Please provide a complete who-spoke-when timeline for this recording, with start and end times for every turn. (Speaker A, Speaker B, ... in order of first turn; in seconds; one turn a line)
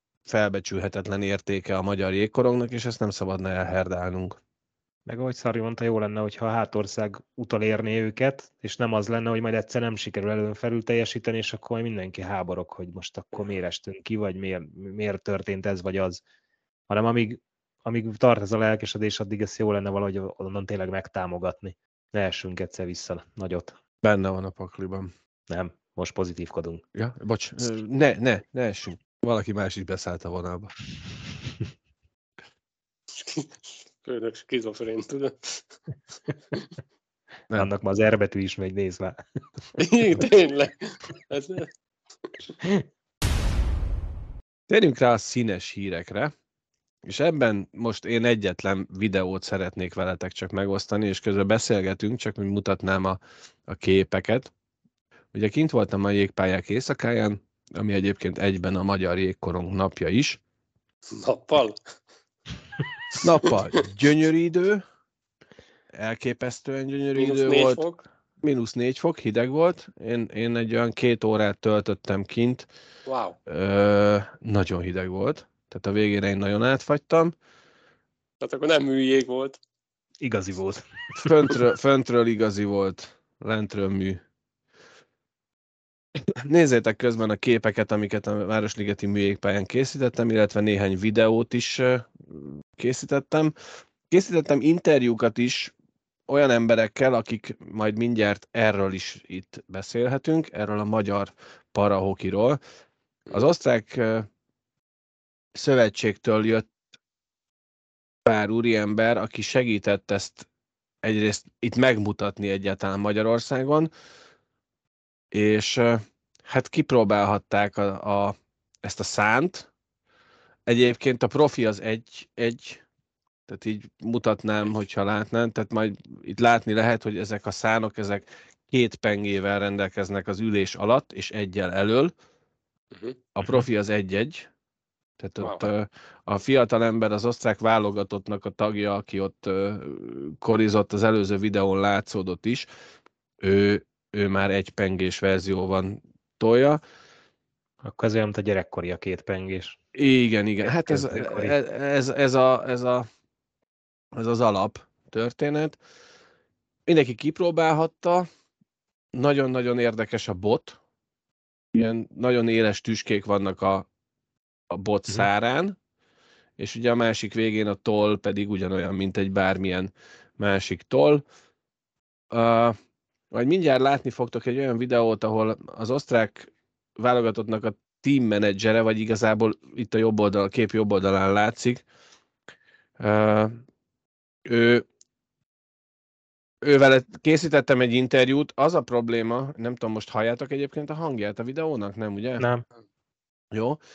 Speaker A: 0.2-4.4
Speaker B: 5.1-16.2
Speaker B: 16.9-23.8
Speaker A: 24.0-25.1
Speaker B: 25.5-26.8
Speaker A: 26.9-30.7
Speaker C: 33.1-35.7
Speaker B: 37.5-39.2
Speaker C: 39.8-41.7
Speaker A: 44.7-46.3
Speaker A: 47.0-54.5
Speaker A: 55.3-60.4
Speaker C: 61.1-61.8
Speaker A: 63.2-64.8
Speaker A: 65.9-67.8
Speaker C: 67.2-68.0
Speaker A: 68.4-72.7
Speaker C: 73.0-73.4
Speaker A: 73.5-77.3
Speaker C: 78.4-79.6
Speaker B: 80.2-80.8
Speaker A: 81.2-84.2
Speaker A: 86.4-93.5
Speaker A: 94.1-95.7
Speaker A: 96.3-102.6
Speaker A: 103.3-104.3
Speaker A: 105.5-106.7
Speaker A: 108.2-110.5
Speaker A: 111.0-113.9
Speaker A: 115.3-119.7
Speaker A: 120.7-122.8
Speaker A: 123.5-132.1
Speaker C: 132.9-133.2
Speaker A: 133.3-134.5
Speaker A: 135.2-142.7
Speaker C: 135.4-135.7
Speaker A: 143.4-146.8
Speaker B: 147.8-149.8
Speaker A: 149.9-153.1
Speaker B: 150.7-151.6
Speaker A: 154.1-155.8
Speaker A: 156.8-158.3
Speaker A: 159.1-160.8
Speaker A: 161.7-163.9
Speaker A: 164.7-165.8
Speaker A: 166.6-171.2
Speaker A: 172.3-172.8
Speaker A: 173.3-181.8
Speaker A: 183.0-183.6
Speaker A: 184.4-184.8
Speaker A: 186.6-192.4
Speaker A: 193.5-193.8